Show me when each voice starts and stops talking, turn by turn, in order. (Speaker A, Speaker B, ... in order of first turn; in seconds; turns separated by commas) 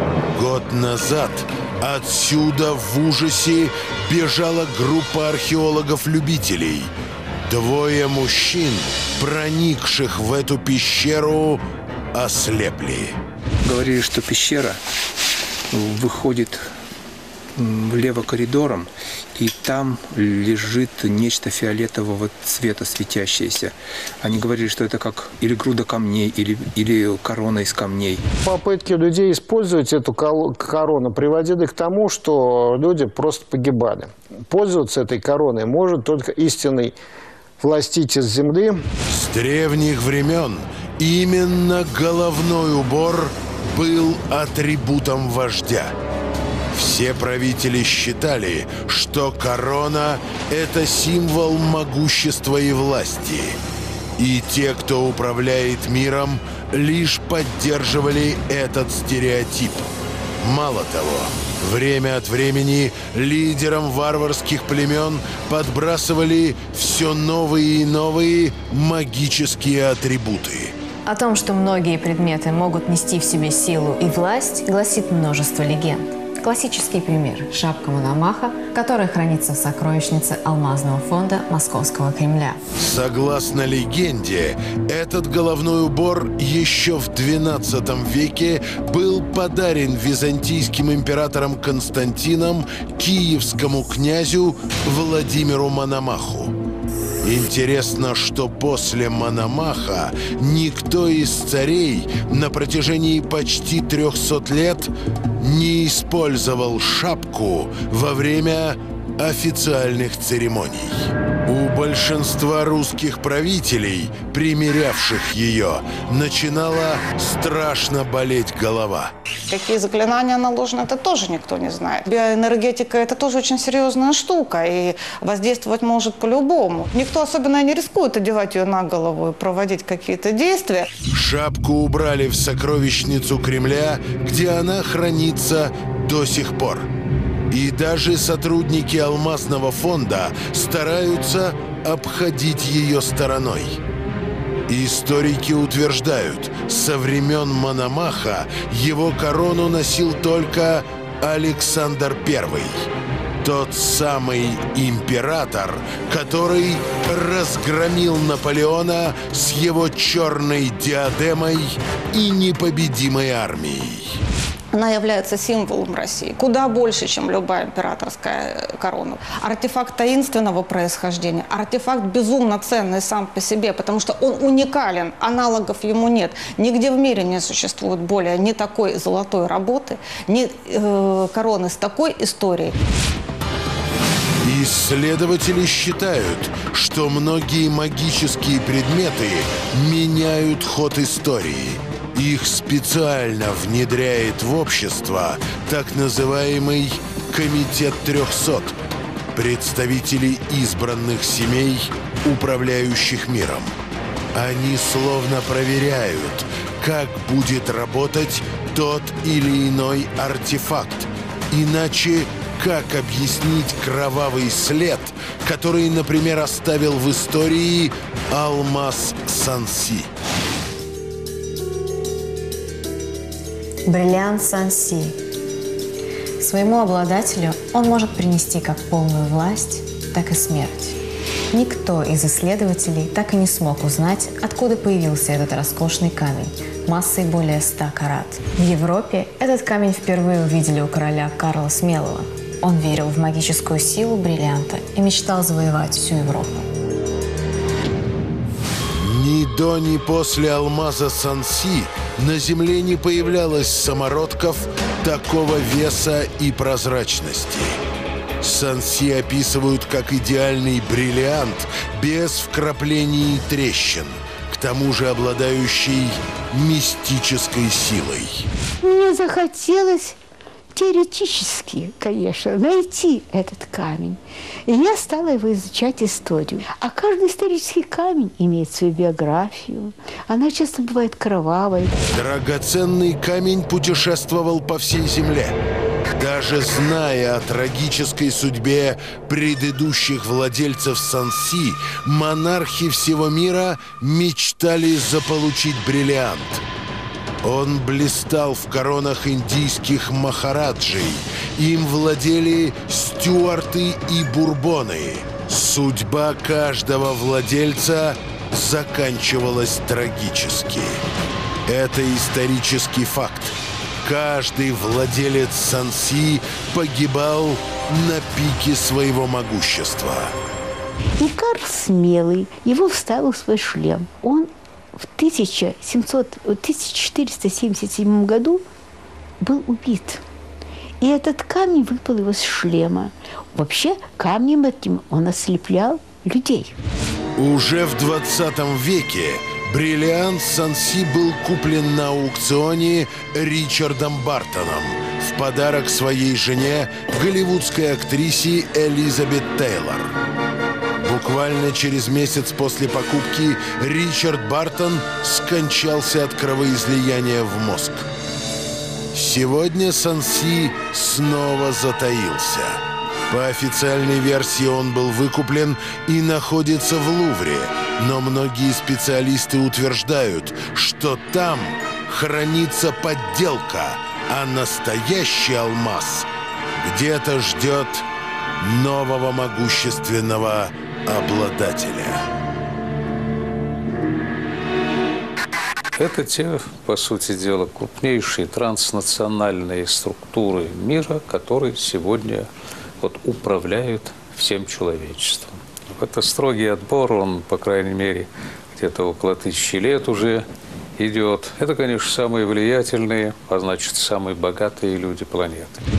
Speaker A: 0.3-6.9, Speaker A: 7.5-11.6, Speaker A: 12.1-13.2, Speaker B: 13.6-14.8, Speaker B: 15.7-16.6, Speaker B: 17.6-28.2, Speaker C: 28.4-37.0, Speaker C: 37.6-38.8, Speaker A: 39.1-45.9, Speaker A: 46.7-53.6, Speaker A: 54.2-70.7, Speaker D: 71.0-82.6, Speaker A: 82.8-96.5, Speaker A: 97.2-119.1, Speaker E: 119.5-130.8, Speaker A: 131.1-136.9, Speaker A: 137.5-143.8, Speaker A: 144.7-152.9, Speaker A: 153.4-164.2, Speaker E: 164.7-182.7, Speaker A: 184.4-198.8, Speaker A: 199.3-203.7, Speaker A: 204.3-220.1, Speaker D: 223.8-225.2, Speaker D: 226.4-230.9, Speaker D: 231.5-246.7, Speaker A: 249.0-257.8, Speaker A: 258.4-268.5, Speaker F: 268.8-270.2, Speaker F: 270.7-281.9, Speaker A: 282.1-285.6, Speaker A: 286.2-296.6, Speaker A: 297.4-311.0, Speaker A: 311.7-320.3, Speaker F: 321.2-328.6, Speaker F: 329.4-330.2, Speaker F: 331.0-336.8, Speaker A: 337.4-350.1, Speaker A: 351.0-358.1, Speaker A: 359.1-378.0, Speaker A: 378.6-382.2, Speaker G: 385.9-400.4, Speaker G: 401.0-405.8